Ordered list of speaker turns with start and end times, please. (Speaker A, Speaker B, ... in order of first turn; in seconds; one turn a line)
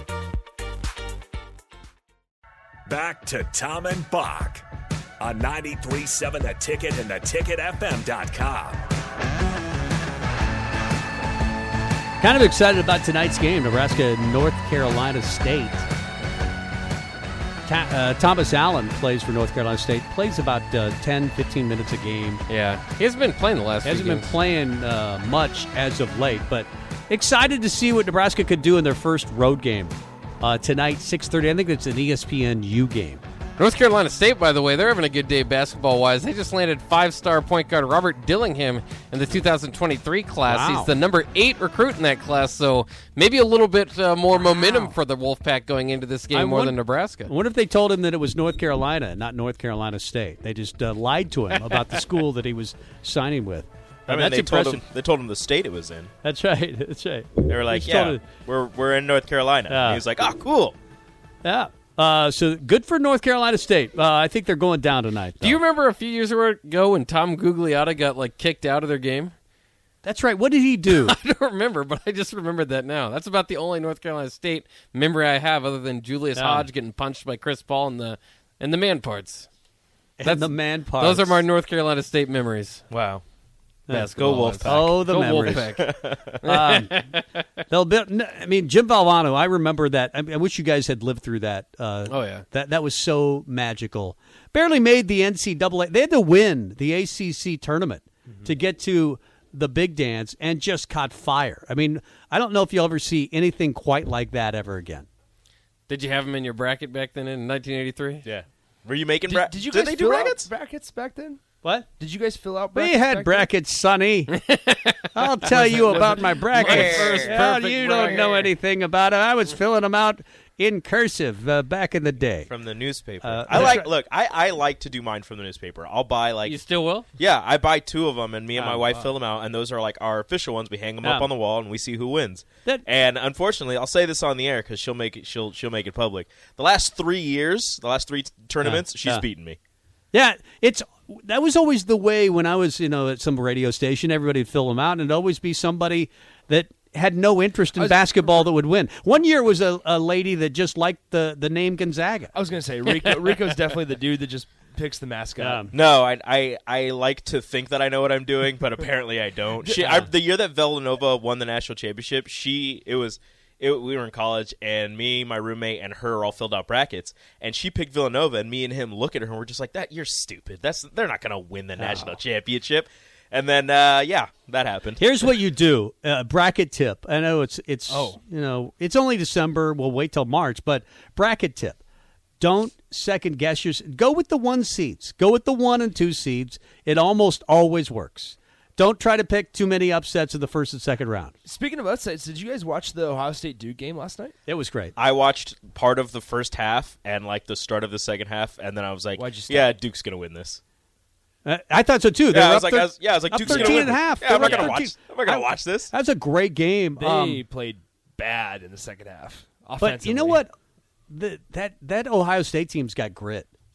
Speaker A: 2.9-4.7
Speaker A: 5.2-8.8
Speaker B: 12.2-15.8
Speaker B: 17.7-22.4
Speaker C: 22.5-24.4
Speaker B: 23.8-33.2
Speaker C: 33.6-47.3
Speaker B: 40.5-40.9
Speaker B: 46.3-54.8
Speaker C: 51.7-52.0
Speaker D: 54.1-56.1
Speaker B: 56.2-58.2
Speaker D: 57.5-60.8
Speaker B: 59.7-60.1
Speaker B: 61.4-65.6
Speaker C: 65.4-69.3
Speaker B: 70.0-71.2
Speaker C: 70.9-79.5
Speaker B: 76.4-76.7
Speaker B: 80.2-81.4
Speaker C: 80.2-82.8
Speaker D: 82.9-83.2
Speaker B: 83.9-85.8
Speaker C: 83.9-87.2
Speaker D: 84.2-84.9
Speaker D: 85.5-86.4
Speaker B: 86.4-86.9
Speaker B: 87.7-105.1
Speaker C: 92.1-92.5
Speaker C: 105.9-108.2
Speaker D: 108.2-110.5
Speaker E: 109.3-111.4
Speaker B: 111.6-111.9
Speaker E: 112.0-113.5
Speaker B: 112.7-114.3
Speaker C: 114.4-118.5
Speaker B: 115.2-122.5
Speaker D: 116.5-117.4
Speaker E: 117.5-118.2
Speaker D: 122.5-126.6
Speaker B: 123.2-123.9
Speaker C: 126.5-127.1
Speaker D: 127.2-139.6
Speaker B: 128.6-129.1
Speaker B: 131.0-131.3
Speaker B: 138.6-139.2
Speaker B: 140.1-152.3
Speaker E: 147.8-148.5
Speaker E: 152.3-155.7
Speaker B: 155.4-155.7
Speaker D: 155.7-175.1
Speaker E: 159.6-160.1
Speaker B: 171.8-172.2
Speaker B: 175.0-181.8
Speaker E: 177.9-178.2
Speaker B: 182.4-191.3
Speaker E: 191.4-194.3
Speaker B: 194.5-194.9
Speaker D: 195.0-200.6
Speaker E: 199.2-199.8
Speaker B: 201.4-207.4
Speaker D: 202.3-205.9
Speaker E: 203.5-203.9
Speaker E: 206.9-210.4
Speaker B: 209.8-210.5
Speaker B: 211.1-213.5